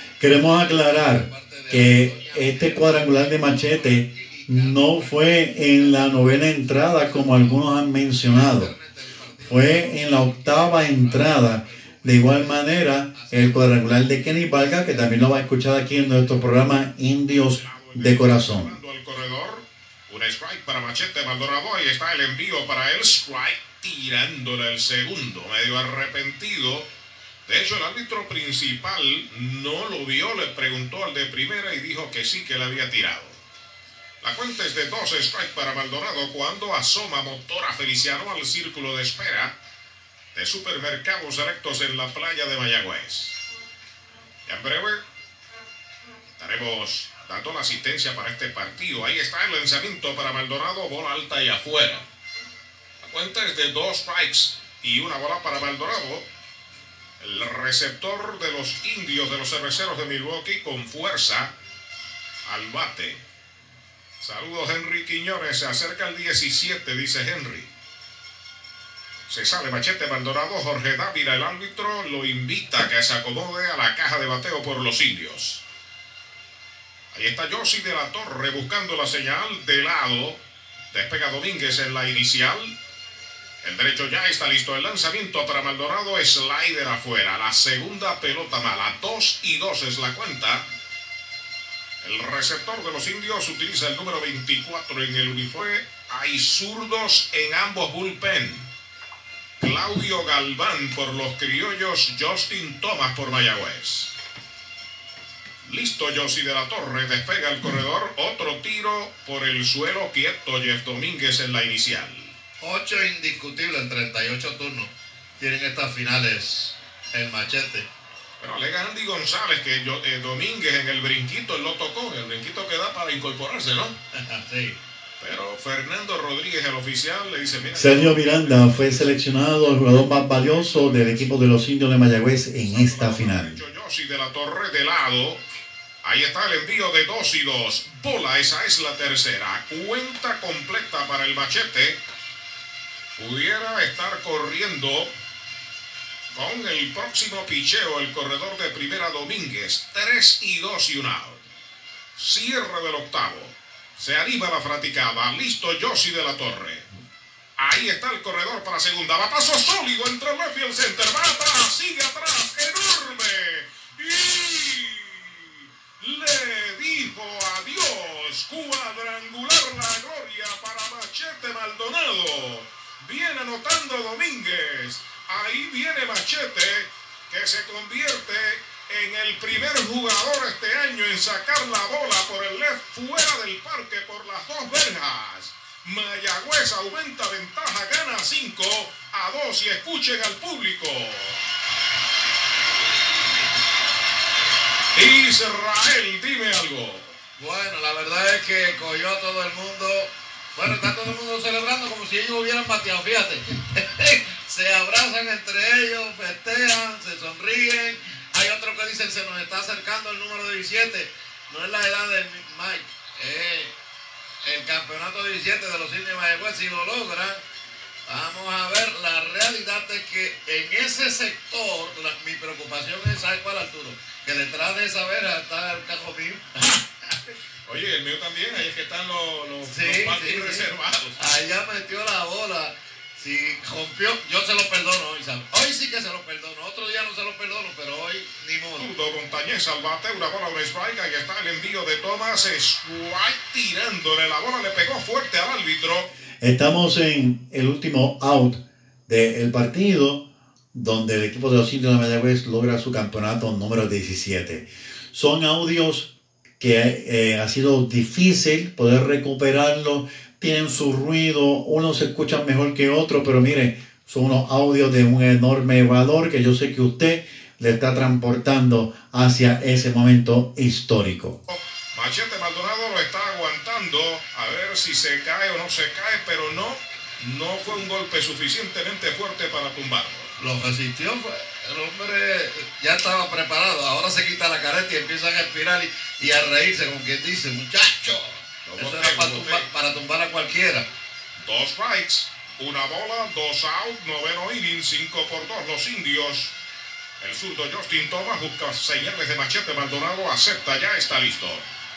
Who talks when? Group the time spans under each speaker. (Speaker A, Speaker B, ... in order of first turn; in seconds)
Speaker A: 0.2-8.7, 9.4-18.8, 127.7-133.6, 246.4-271.4
Speaker B: 0.7-16.3, 112.6-117.9, 124.2-124.8, 197.4-213.7, 214.4-217.4, 218.1-226.5, 229.6-230.7, 231.2-238.9, 280.4-290.9
Speaker C: 17.6-26.9, 27.5-33.4, 34.2-39.5, 40.3-43.4, 44.5-45.0, 46.4-52.0, 53.0-56.3, 57.2-61.5, 62.5-63.2, 64.2-67.7, 69.3-75.6, 77.1-80.4, 80.9-82.8, 83.6-90.7, 92.0-98.7, 99.6-104.1, 105.6-112.3, 118.4-124.0, 125.2-129.1, 130.3-131.3, 132.6-135.4, 136.0-142.0, 143.2-145.1, 146.3-151.4, 152.2-156.9, 157.6-191.4, 194.9-197.1, 227.7-231.2, 238.8-246.1, 271.5-280.3, 288.6-289.7, 291.4-296.5, 297.2-301.6